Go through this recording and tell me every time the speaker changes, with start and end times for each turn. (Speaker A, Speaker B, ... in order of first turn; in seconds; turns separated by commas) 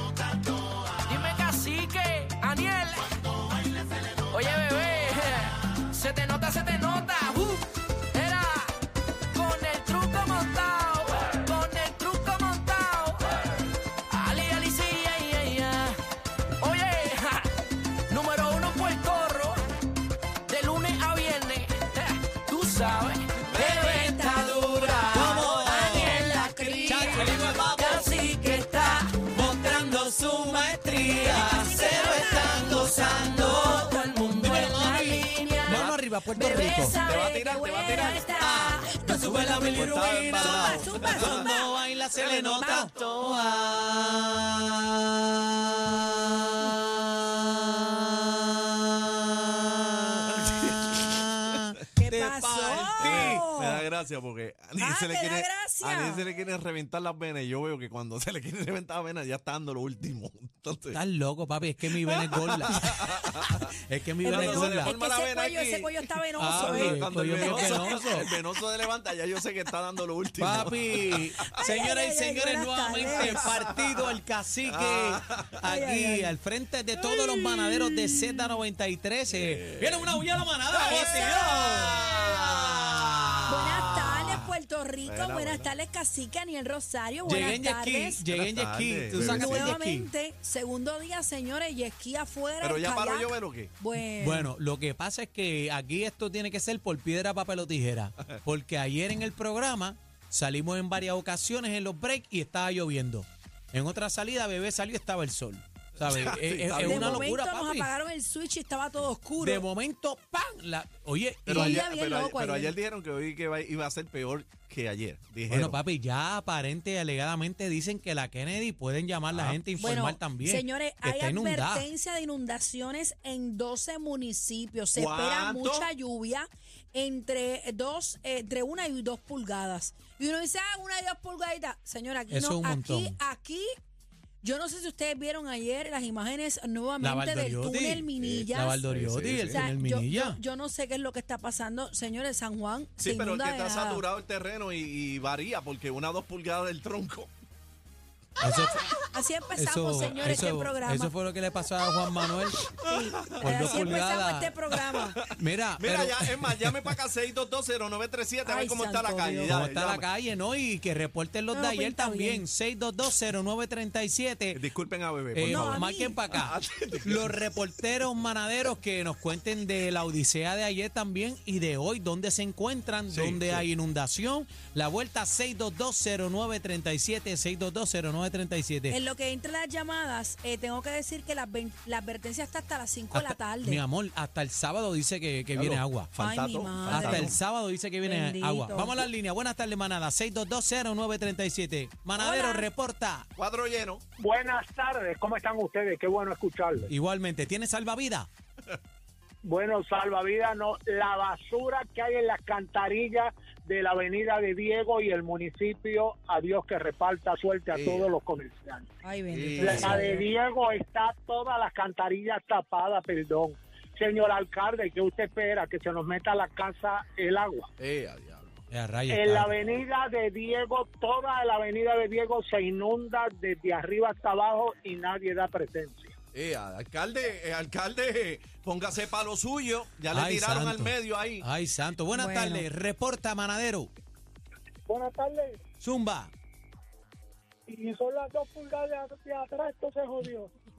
Speaker A: 0.5-8.8, Speaker A: 9.3-13.4, Speaker A: 14.1-16.0, Speaker A: 16.6-17.5, Speaker A: 18.1-19.6, Speaker A: 20.5-29.1, Speaker B: 23.5-27.5, Speaker C: 25.1-28.1, Speaker C: 29.1-37.0, Speaker B: 31.2-41.7, Speaker A: 31.8-32.4, Speaker A: 32.9-35.8, Speaker D: 36.8-38.3, Speaker C: 38.4-53.4, Speaker D: 39.6-41.5, Speaker D: 42.1-43.1, Speaker B: 42.4-42.9, Speaker D: 50.7-51.0, Speaker B: 52.0-53.8, Speaker D: 53.0-61.0, Speaker B: 54.8-56.3, Speaker C: 60.9-64.9, Speaker D: 62.1-63.7, Speaker B: 64.2-68.3, Speaker D: 64.2-71.7, Speaker C: 66.4-68.3, Speaker C: 70.4-84.5, Speaker B: 71.5-73.5, Speaker D: 73.0-75.6, Speaker B: 75.6-76.3, Speaker B: 77.1-78.3, Speaker D: 79.3-80.2, Speaker D: 80.7-82.8, Speaker B: 80.7-82.0, Speaker B: 83.5-88.2, Speaker D: 85.0-85.7, Speaker C: 87.2-90.1, Speaker D: 88.3-89.8, Speaker B: 89.1-94.5, Speaker D: 92.6-93.7, Speaker C: 94.2-107.9, Speaker D: 106.0-107.2, Speaker B: 106.7-109.7, Speaker C: 109.4-111.9, Speaker D: 111.5-115.8, Speaker B: 111.5-112.7, Speaker C: 115.5-121.9, Speaker D: 119.3-119.6, Speaker B: 119.8-133.7, Speaker D: 124.9-125.9, Speaker C: 132.3-133.2, Speaker B: 134.4-138.8, Speaker C: 137.0-140.4, Speaker D: 138.2-139.6, Speaker B: 139.4-144.1, Speaker D: 143.0-147.3, Speaker C: 148.4-148.9, Speaker B: 149.1-151.1, Speaker C: 149.6-152.6, Speaker B: 152.8-155.2, Speaker D: 152.9-153.4, Speaker C: 153.4-154.5, Speaker D: 154.8-160.1, Speaker C: 155.3-156.9, Speaker B: 158.4-159.6, Speaker C: 159.5-164.6, Speaker B: 161.5-162.5, Speaker D: 164.5-167.4, Speaker C: 165.3-179.0, Speaker B: 165.5-166.2, Speaker D: 173.1-173.7, Speaker B: 178.9-183.8, Speaker C: 183.1-186.1, Speaker D: 185.5-187.4, Speaker B: 186.2-187.3, Speaker C: 186.9-193.3, Speaker B: 188.0-189.1, Speaker B: 192.2-192.7, Speaker D: 193.3-194.0, Speaker E: 194.2-196.9, Speaker C: 196.9-198.3, Speaker E: 199.4-208.9, Speaker D: 207.7-208.1, Speaker B: 209.0-210.2, Speaker D: 209.3-210.0, Speaker E: 209.6-217.7, Speaker D: 217.8-218.6, Speaker C: 218.7-219.5, Speaker E: 219.1-226.1, Speaker D: 226.3-231.4, Speaker C: 230.1-233.9, Speaker B: 232.1-232.7, Speaker E: 234.9-235.6, Speaker C: 235.8-236.3, Speaker E: 237.7-240.5